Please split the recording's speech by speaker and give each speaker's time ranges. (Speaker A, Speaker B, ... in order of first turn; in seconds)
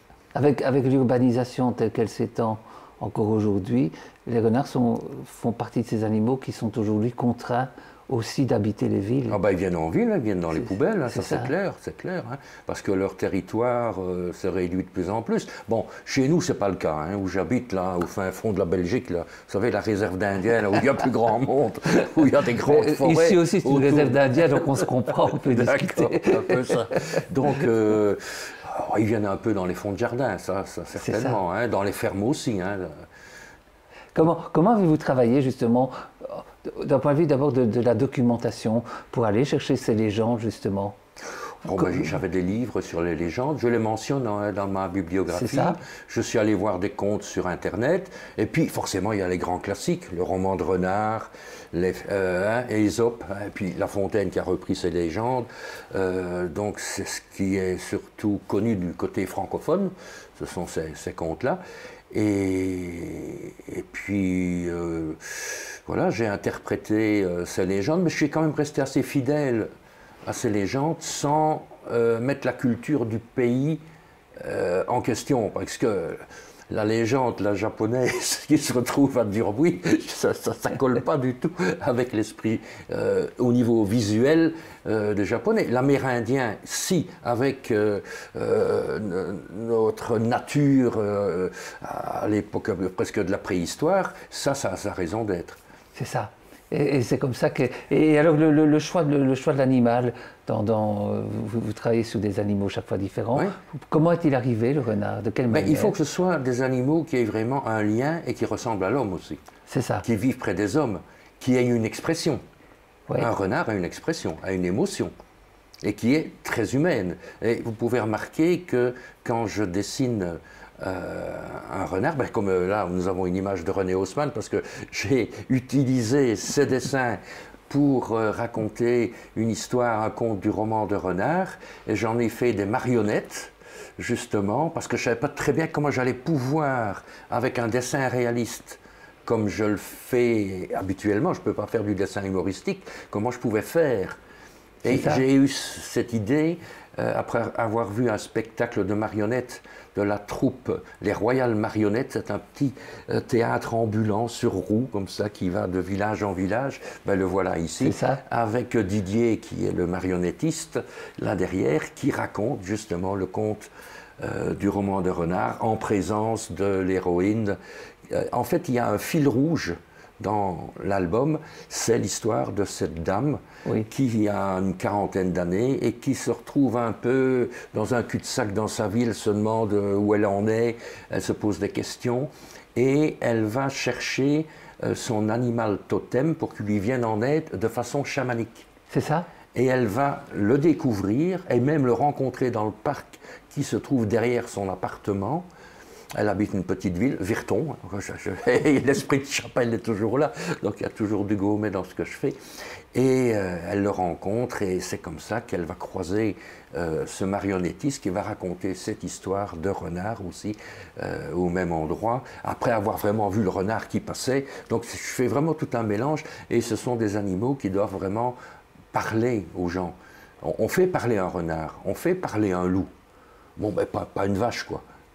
Speaker A: 0.3-9.4, 11.1-11.5, 22.6-26.9, 31.0-31.4, 34.1-41.0, 41.7-42.1, 45.3-45.8, 95.9-105.9, 109.7-110.0, 144.8-145.2, 157.8-158.2, 188.9-189.3
Speaker B: 9.3-33.0, 41.6-61.6, 62.1-69.7, 70.2-73.8, 74.3-95.6, 105.5-109.4, 110.0-112.4, 113.2-115.1, 115.8-144.2, 144.8-167.6, 168.1-188.7, 189.5-195.5, 196.1-202.4, 202.9-218.4, 218.9-222.9, 223.6-224.8